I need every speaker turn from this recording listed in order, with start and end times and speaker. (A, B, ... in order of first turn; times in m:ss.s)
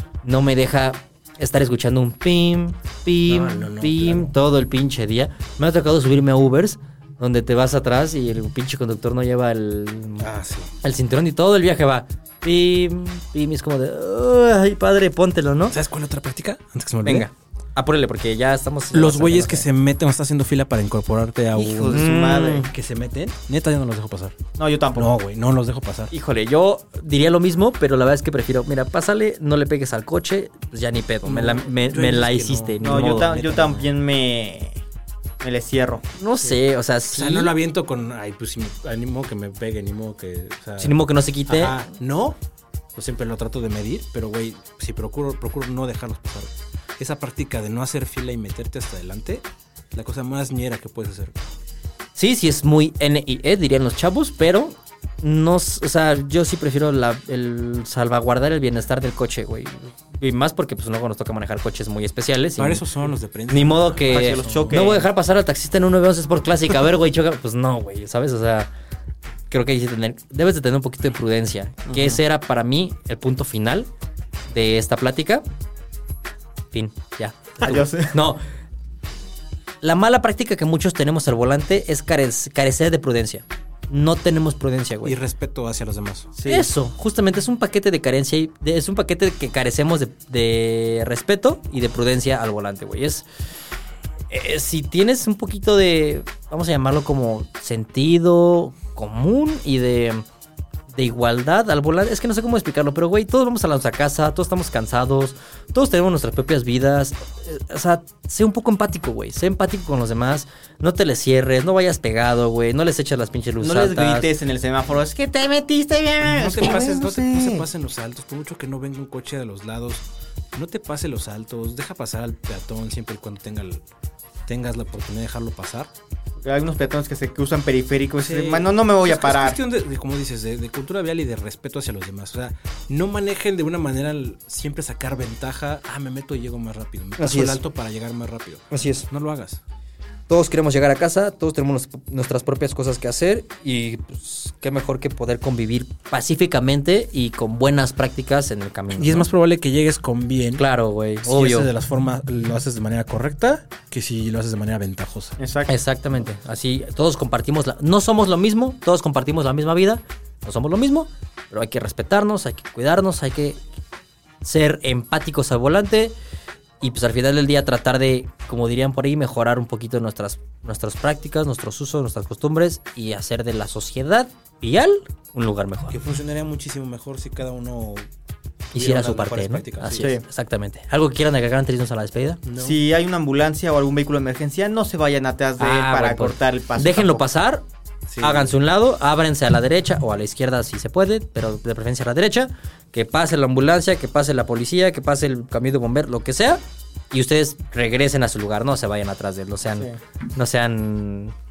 0:00.2-0:10.3 A
0:03.2-0:04.3 B
0:10.2-0:10.7 B
0:10.8-0:15.8 A
0:15.7-0:17.3 B
0:17.0-0:19.6 A
0:18.9-0:24.4 B
0:21.5-0:22.7 C
0:21.9-0:22.7 A
0:24.6-0:25.1 C
0:24.9-0:26.1 B
0:26.1-0:33.6 A
0:31.2-0:33.9 B
0:32.8-0:34.8 C
0:35.4-0:36.0 C
0:36.2-0:37.5 A
0:37.1-0:42.4 B
0:40.8-0:41.8 A
0:42.9-0:51.5 B
0:52.2-1:02.8 A
1:02.6-1:05.0 B
1:03.5-1:08.7 A
1:04.1-1:05.0 C
1:09.5-1:13.9 A
1:11.9-1:12.2 B
1:14.5-1:15.4 A
1:16.7-1:18.4 A
1:17.6-1:18.1 C
1:19.8-1:25.2 A
1:25.0-1:26.3 B
1:26.4-1:26.7 C
1:26.5-1:33.3 A
1:34.3-1:40.2 A
1:40.9-1:54.3 A
1:53.6-1:57.6 C
1:56.2-2:03.8 B
2:04.4-2:05.9 B
2:06.4-2:09.6 C
2:08.2-2:19.6 B
2:17.2-2:17.6 A
2:18.7-2:19.1 A
2:20.3-2:29.3 A
2:28.9-2:30.6 B
2:30.6-2:31.7 A
2:31.2-2:35.4 B
2:35.4-2:35.7 C
2:35.7-2:43.6 A
2:44.4-2:46.1 A
2:46.8-2:56.0 A
2:55.9-2:58.1 B
2:58.7-3:00.1 B
2:58.7-3:02.4 A
3:00.0-3:00.2 C
3:02.4-3:02.8 B
3:02.6-3:07.2 C
3:05.6-3:07.6 A
3:08.1-3:08.5 B
3:08.2-3:21.3 A